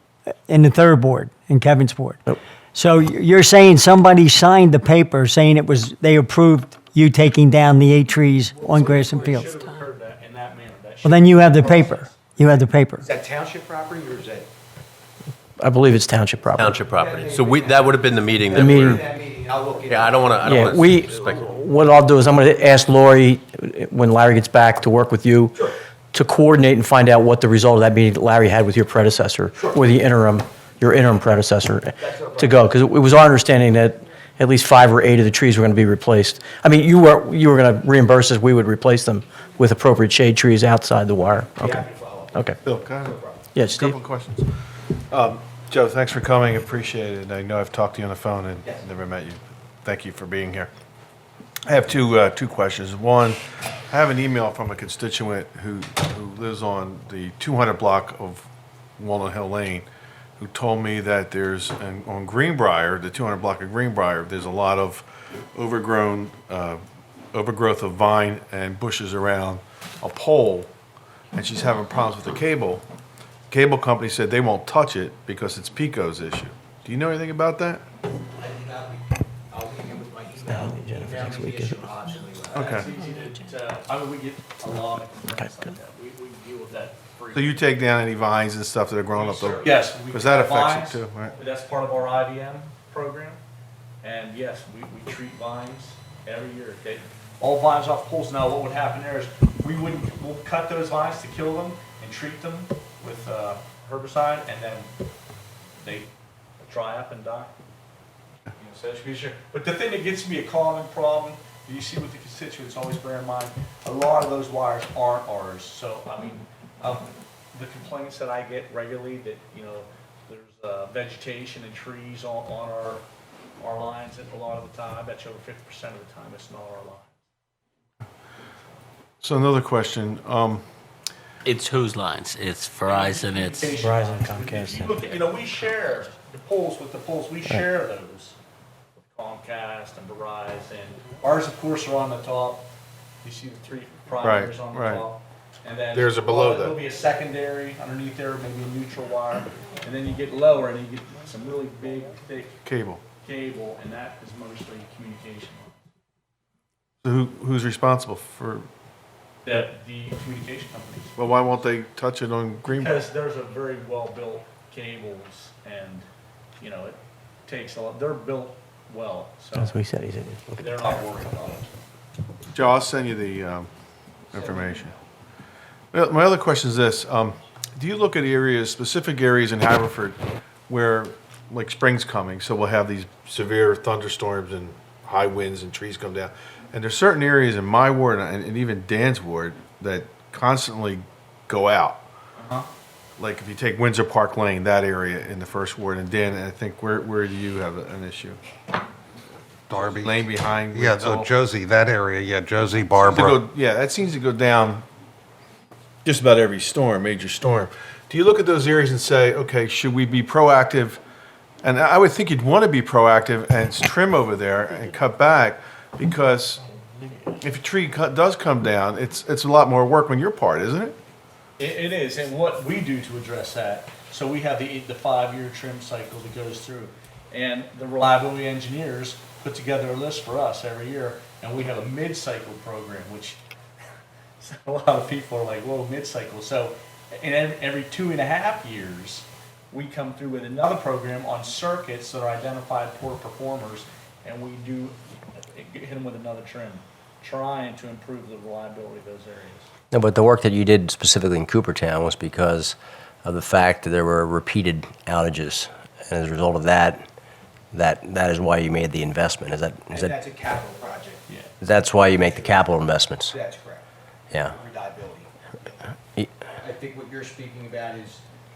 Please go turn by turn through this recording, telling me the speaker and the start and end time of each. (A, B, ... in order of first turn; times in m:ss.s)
0:00.5-0:09.5 A
0:08.6-0:09.7 B
0:08.7-0:12.2 C
0:11.0-0:13.0 A
0:13.0-0:14.5 B
0:15.6-0:16.8 D
0:16.6-0:18.1 E
0:16.6-0:18.8 F
0:16.9-0:18.0 B
0:18.5-0:20.6 B
0:18.6-0:19.0 D
0:19.9-0:21.4 F
0:20.4-0:25.6 D
0:20.6-0:21.0 E
0:26.1-0:41.8 D
0:29.6-0:29.8 B
0:32.0-0:32.9 B
0:41.5-0:43.5 B
0:42.6-0:44.5 G
0:43.6-0:44.0 D
0:45.1-0:50.7 G
0:51.7-0:58.5 G
0:59.0-0:59.9 G
1:00.4-1:06.8 G
1:07.3-1:10.7 G
1:11.3-1:12.8 G
1:13.5-1:17.8 G
1:18.4-1:22.9 B
1:20.5-1:21.8 D
1:22.5-1:27.6 C
1:22.5-1:22.9 G
1:27.3-1:31.4 G
1:29.1-1:33.4 C
1:34.0-1:44.9 C
1:45.8-1:46.1 C
1:46.6-1:47.5 C
1:48.6-2:03.0 C
2:03.6-2:07.2 C
2:09.2-2:10.6 G
2:11.4-2:13.8 E
2:12.8-2:18.4 C
2:13.8-2:14.9 D
2:19.0-2:22.7 C
2:23.2-2:32.6 C
2:24.2-2:25.1 G
2:25.9-2:26.8 G
2:32.6-2:33.0 G
2:33.2-2:35.8 C
2:37.0-2:38.7 G
2:39.4-2:41.2 C
2:41.2-2:43.0 G
2:42.7-2:46.1 C
2:46.6-2:49.8 C
2:49.6-2:50.5 D
2:50.6-2:51.7 C
2:52.5-2:53.7 G
2:54.3-2:54.9 G
2:54.3-2:55.0 B
2:55.9-3:12.0 G
3:12.4-3:12.7 C
3:13.2-3:18.4 G
3:19.7-3:23.4 H
3:19.7-3:21.3 G
3:23.0-3:24.8 G
3:26.0-3:31.0 G
3:31.6-3:36.6 G
3:37.4-3:41.0 G
3:41.6-3:53.4 C
3:54.4-4:09.7 C
4:09.9-4:17.0 I
4:17.7-4:20.1 I
4:19.9-4:21.3 B
4:21.6-4:23.3 I
4:21.9-4:22.7 B
4:23.3-4:23.8 B
4:24.4-4:25.9 B
4:26.6-4:28.2 B